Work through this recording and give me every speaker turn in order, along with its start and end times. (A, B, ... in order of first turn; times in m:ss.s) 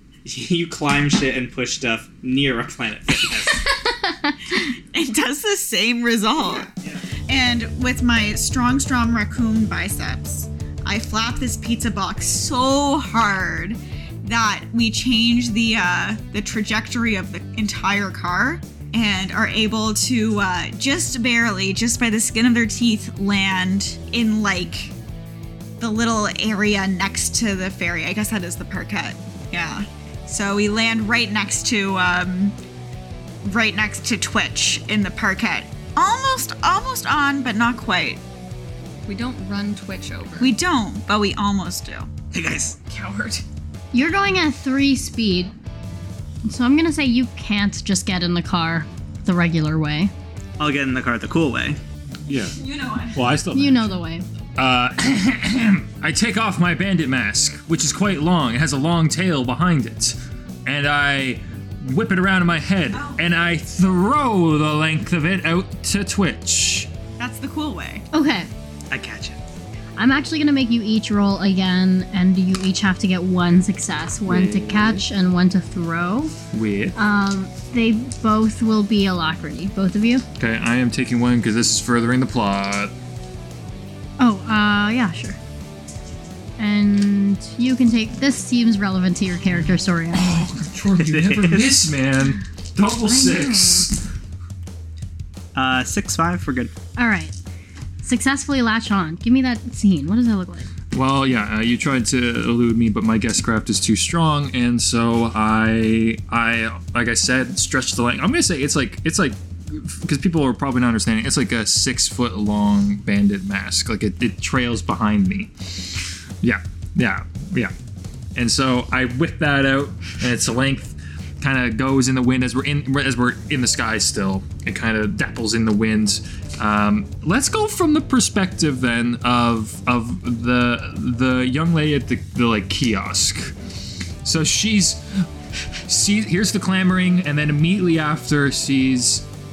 0:00.2-0:03.7 A
0:03.4-0:04.7 B
0:04.8-0:06.7 C
0:06.4-0:07.0 A
0:07.3-0:24.9 C
0:25.8-0:32.6 C
0:33.4-0:38.2 C
0:39.1-0:40.5 D
0:40.4-0:42.1 C
0:42.3-0:42.8 A
0:42.9-0:43.4 D
0:43.9-0:45.5 B
0:46.4-0:50.1 B
0:50.6-0:51.8 A
0:52.3-0:52.6 E
0:52.5-0:53.2 C
0:53.1-0:54.0 E
0:53.5-0:54.2 B
0:54.6-1:06.9 E
1:02.9-1:03.2 C
1:07.2-1:08.0 C
1:08.1-1:08.5 B
1:08.9-1:09.4 A
1:10.0-1:16.3 B
1:14.3-1:15.0 E
1:16.5-1:17.0 E
1:17.0-1:20.2 B
1:20.4-1:22.9 E
1:24.2-1:25.4 B
1:26.6-1:30.3 B
1:30.1-1:34.0 E
1:31.0-1:31.8 A
1:33.0-1:33.9 B
1:35.5-1:36.7 A
1:37.0-1:37.3 B
1:38.0-1:40.7 B
1:40.9-1:55.5 E
1:56.4-1:57.7 E
1:58.4-2:13.5 E
2:14.2-2:15.0 E
2:15.9-2:19.2 E